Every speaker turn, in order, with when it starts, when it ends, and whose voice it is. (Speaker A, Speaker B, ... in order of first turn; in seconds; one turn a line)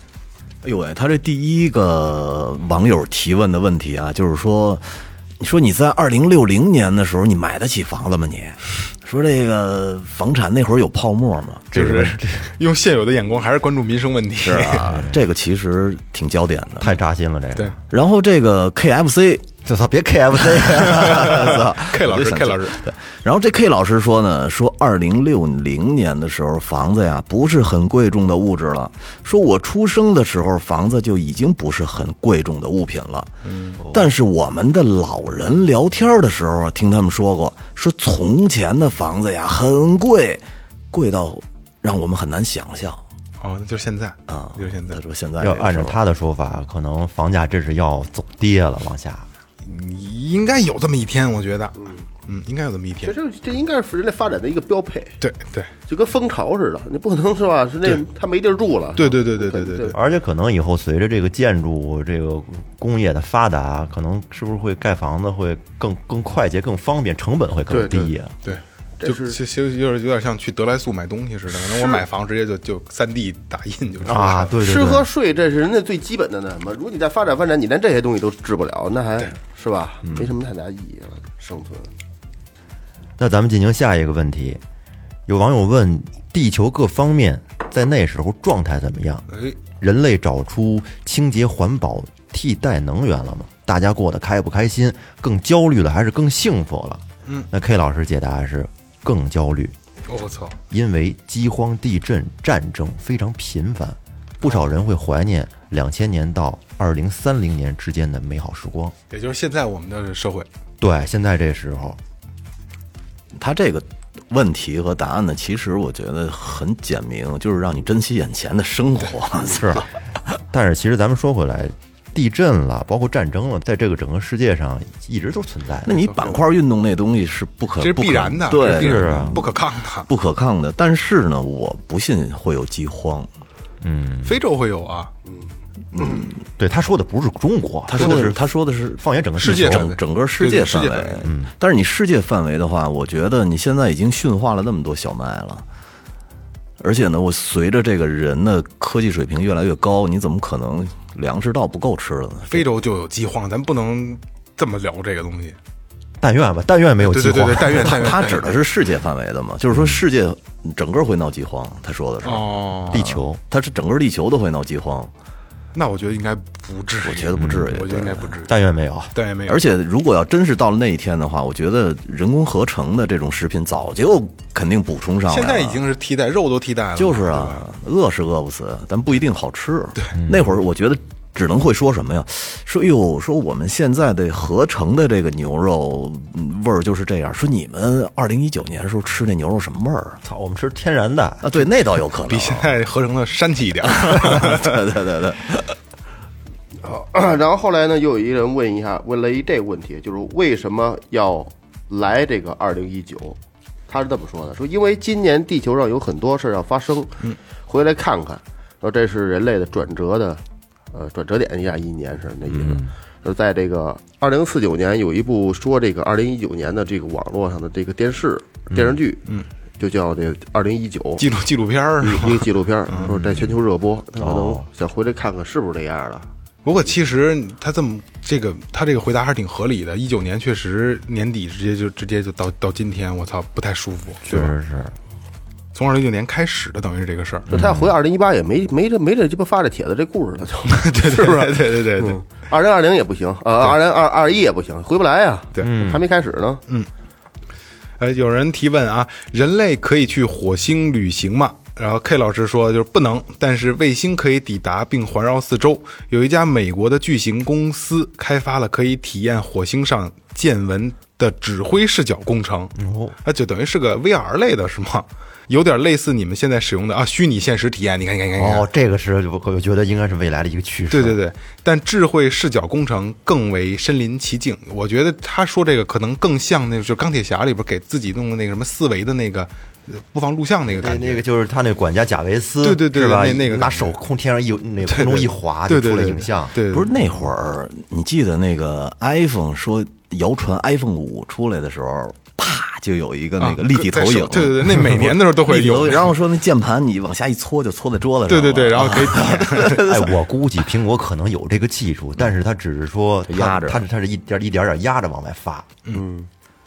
Speaker A: 0.6-11.9
Speaker B: 11.7-12.5
Speaker C: 11.7-15.0
Speaker A: 14.4-16.9
Speaker B: 16.8-17.8
Speaker A: 17.9-19.5
Speaker B: 19.6-21.6
Speaker A: 20.4-43.0
Speaker C: 20.9-22.8
Speaker C: 33.4-33.8
Speaker B: 33.8-34.1
Speaker C: 43.4-45.0
Speaker A: 44.3-46.0
Speaker B: 45.4-49.3
Speaker C: 49.6-51.8
Speaker C: 52.3-53.1
Speaker D: 53.0-55.1
Speaker C: 55.2-55.7
Speaker D: 55.9-60.0
Speaker C: 59.0-60.0
Speaker B: 59.9-68.4
Speaker D: 67.7-68.1
Speaker C: 68.4-74.5
Speaker D: 69.0-69.4
Speaker D: 71.7-72.0
Speaker B: 74.0-75.1
Speaker D: 74.6-81.9
Speaker B: 83.2-84.6
Speaker B: 85.3-89.2
Speaker C: 89.3-89.6
Speaker B: 89.8-99.7
Speaker C: 100.1-100.6
Speaker B: 100.7-108.9
Speaker C: 109.1-110.5
Speaker B: 110.8-112.0
Speaker A: 113.3-119.8
Speaker B: 119.5-119.9
Speaker B: 120.5-126.0
Speaker A: 125.9-129.5
Speaker C: 126.1-126.4
Speaker C: 127.8-130.1
Speaker B: 128.6-129.4
Speaker A: 130.1-133.3
Speaker B: 133.8-134.4
Speaker C: 134.2-135.1
Speaker A: 135.9-136.3
Speaker B: 136.6-138.4
Speaker A: 137.9-145.6
Speaker C: 138.0-138.3
Speaker B: 139.0-139.9
Speaker C: 139.4-141.2
Speaker B: 141.2-141.5
Speaker A: 146.8-152.6
Speaker C: 152.5-155.6
Speaker B: 156.2-158.1
Speaker C: 157.0-158.6
Speaker A: 157.9-165.1
Speaker C: 162.2-163.1
Speaker B: 162.9-163.4
Speaker C: 165.7-168.5
Speaker A: 167.0-168.3
Speaker B: 167.4-167.8
Speaker B: 168.4-169.1
Speaker C: 169.1-169.6
Speaker A: 169.5-175.8
Speaker C: 175.3-177.7
Speaker A: 176.9-190.2
Speaker B: 190.2-191.6
Speaker A: 191.4-192.7
Speaker C: 192.3-194.9
Speaker A: 193.8-195.7
Speaker D: 196.8-203.4
Speaker D: 203.9-219.2
Speaker D: 219.8-221.2
Speaker C: 221.2-223.1
Speaker D: 222.0-226.3
Speaker B: 223.1-223.5
Speaker B: 224.2-224.6
Speaker C: 226.6-234.6
Speaker B: 234.3-234.9
Speaker C: 235.7-237.5
Speaker B: 237.5-237.9
Speaker D: 237.5-246.6
Speaker C: 240.7-242.2
Speaker B: 245.6-246.0
Speaker C: 248.0-268.7
Speaker B: 262.8-263.1
Speaker B: 268.4-271.2
Speaker C: 270.9-281.2
Speaker B: 280.7-286.6
Speaker C: 282.6-284.0
Speaker C: 284.9-286.9
Speaker A: 286.7-300.1
Speaker C: 293.4-296.2
Speaker C: 298.3-299.9
Speaker B: 299.7-305.7
Speaker A: 303.3-303.8
Speaker D: 305.9-306.3